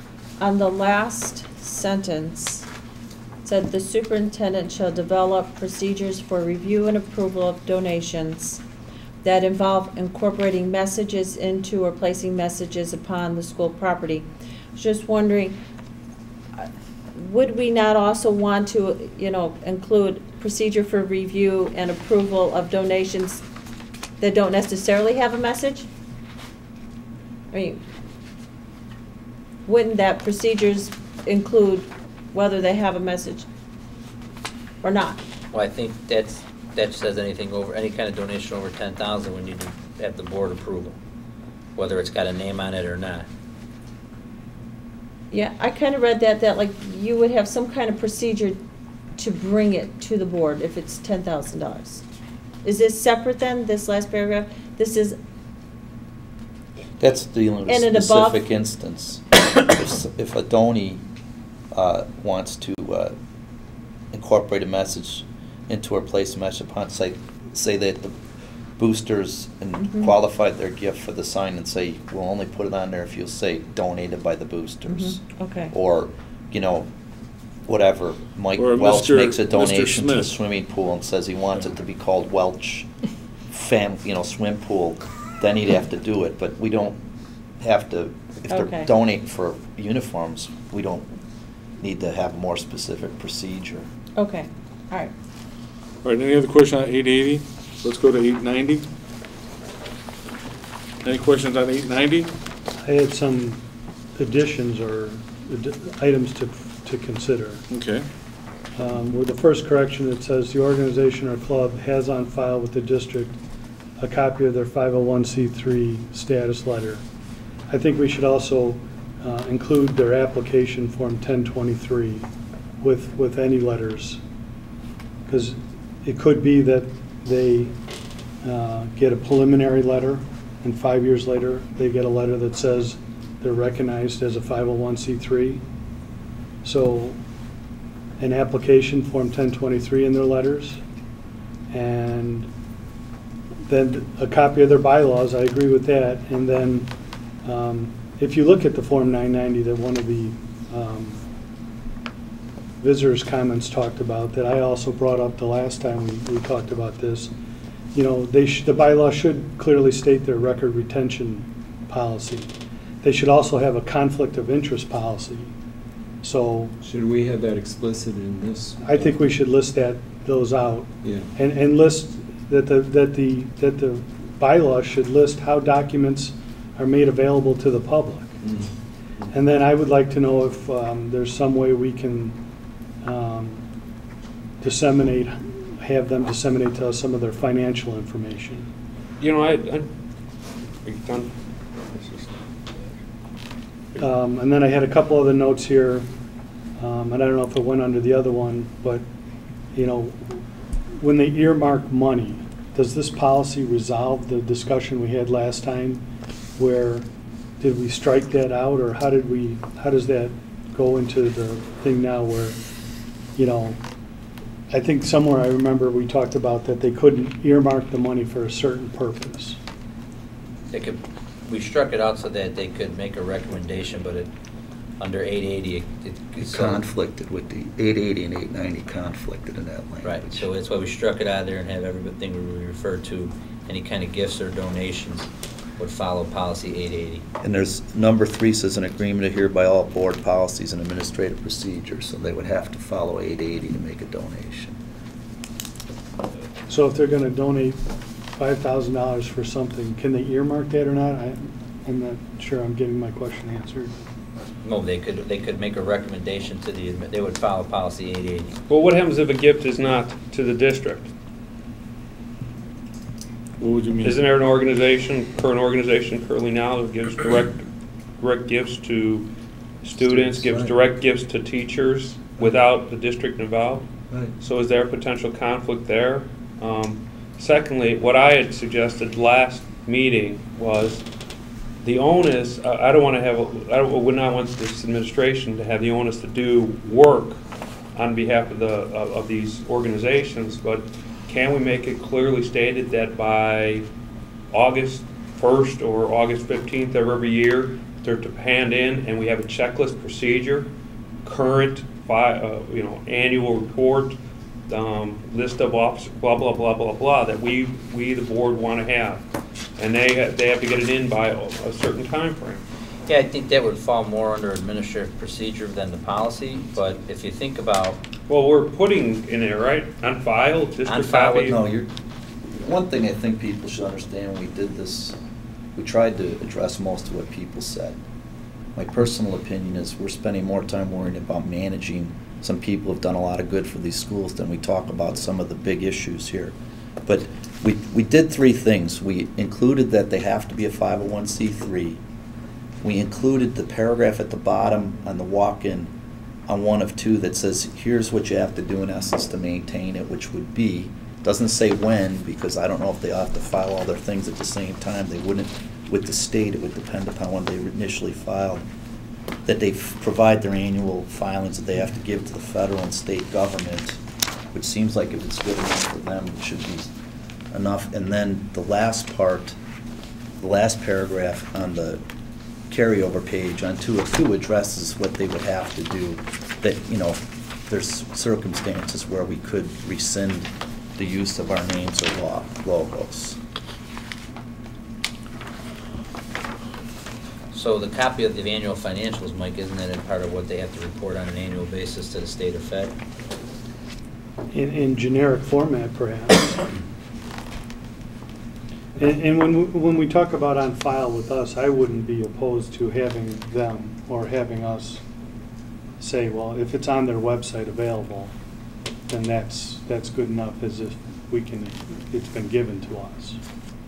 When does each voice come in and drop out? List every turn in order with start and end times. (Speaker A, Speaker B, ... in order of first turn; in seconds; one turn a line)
Speaker A: 0.4-2.7
Speaker A: 3.4-8.6
Speaker A: 9.2-15.6
Speaker A: 16.6-23.4
Speaker A: 24.2-25.9
Speaker A: 27.5-27.8
Speaker A: 29.6-33.5
Speaker A: 34.8-35.2
Speaker B: 35.5-41.0
Speaker B: 41.8-43.3
Speaker A: 45.3-48.6
Speaker A: 49.1-52.0
Speaker A: 52.6-55.2
Speaker C: 57.0-61.0
Speaker A: 57.6-58.4
Speaker C: 61.7-63.1
Speaker C: 64.1-68.2
Speaker C: 68.8-76.9
Speaker A: 69.8-70.1
Speaker A: 74.9-75.7
Speaker C: 77.6-82.9
Speaker D: 78.6-80.3
Speaker C: 83.5-87.0
Speaker C: 87.6-91.1
Speaker A: 88.5-88.9
Speaker C: 91.8-93.9
Speaker A: 94.2-95.1
Speaker D: 96.0-98.8
Speaker D: 101.0-102.3
Speaker E: 102.8-103.6
Speaker E: 104.1-107.6
Speaker D: 107.7-108.0
Speaker E: 108.8-113.4
Speaker E: 114.0-117.0
Speaker E: 117.7-122.3
Speaker E: 122.8-124.2
Speaker E: 125.3-127.7
Speaker E: 128.4-135.6
Speaker E: 136.6-137.2
Speaker E: 138.2-140.8
Speaker E: 141.7-142.5
Speaker E: 143.7-146.9
Speaker E: 147.4-151.2
Speaker E: 152.8-157.3
Speaker E: 157.9-162.5
Speaker E: 163.0-165.5
Speaker E: 166.2-166.7
Speaker F: 166.8-169.2
Speaker E: 168.8-178.4
Speaker F: 171.0-171.3
Speaker F: 178.4-179.3
Speaker E: 179.3-182.4
Speaker E: 183.0-183.7
Speaker E: 184.6-188.7
Speaker G: 189.2-189.9
Speaker G: 190.8-191.3
Speaker G: 191.9-192.3
Speaker E: 194.0-196.1
Speaker E: 196.8-199.0
Speaker E: 199.7-206.0
Speaker E: 206.6-207.1
Speaker E: 207.6-212.6
Speaker E: 213.3-213.8
Speaker E: 214.7-219.6
Speaker B: 220.7-224.3
Speaker B: 225.0-226.8
Speaker C: 226.3-230.5
Speaker B: 230.0-237.2
Speaker C: 237.4-244.8
Speaker E: 246.7-247.8
Speaker E: 248.3-253.9
Speaker B: 254.6-258.6
Speaker G: 258.7-261.1
Speaker D: 263.6-264.2
Speaker G: 264.0-269.3
Speaker G: 269.8-281.1
Speaker C: 270.0-270.8
Speaker G: 281.8-287.4
Speaker G: 287.9-293.9
Speaker G: 294.5-300.7
Speaker G: 301.2-304.2
Speaker G: 304.7-309.2
Speaker G: 309.8-312.6
Speaker B: 313.1-318.0
Speaker G: 318.3-321.6
Speaker B: 320.9-321.6
Speaker C: 321.4-321.9
Speaker C: 322.5-325.2
Speaker C: 325.8-328.0
Speaker C: 328.7-336.5
Speaker C: 337.1-342.0
Speaker C: 342.8-345.9
Speaker C: 346.5-358.6
Speaker C: 359.4-364.0
Speaker C: 364.5-366.9
Speaker C: 367.5-369.6
Speaker C: 370.4-372.0
Speaker C: 372.7-383.4
Speaker B: 387.5-392.9
Speaker E: 394.5-396.6
Speaker E: 398.9-405.0
Speaker E: 406.0-408.3
Speaker E: 409.1-413.4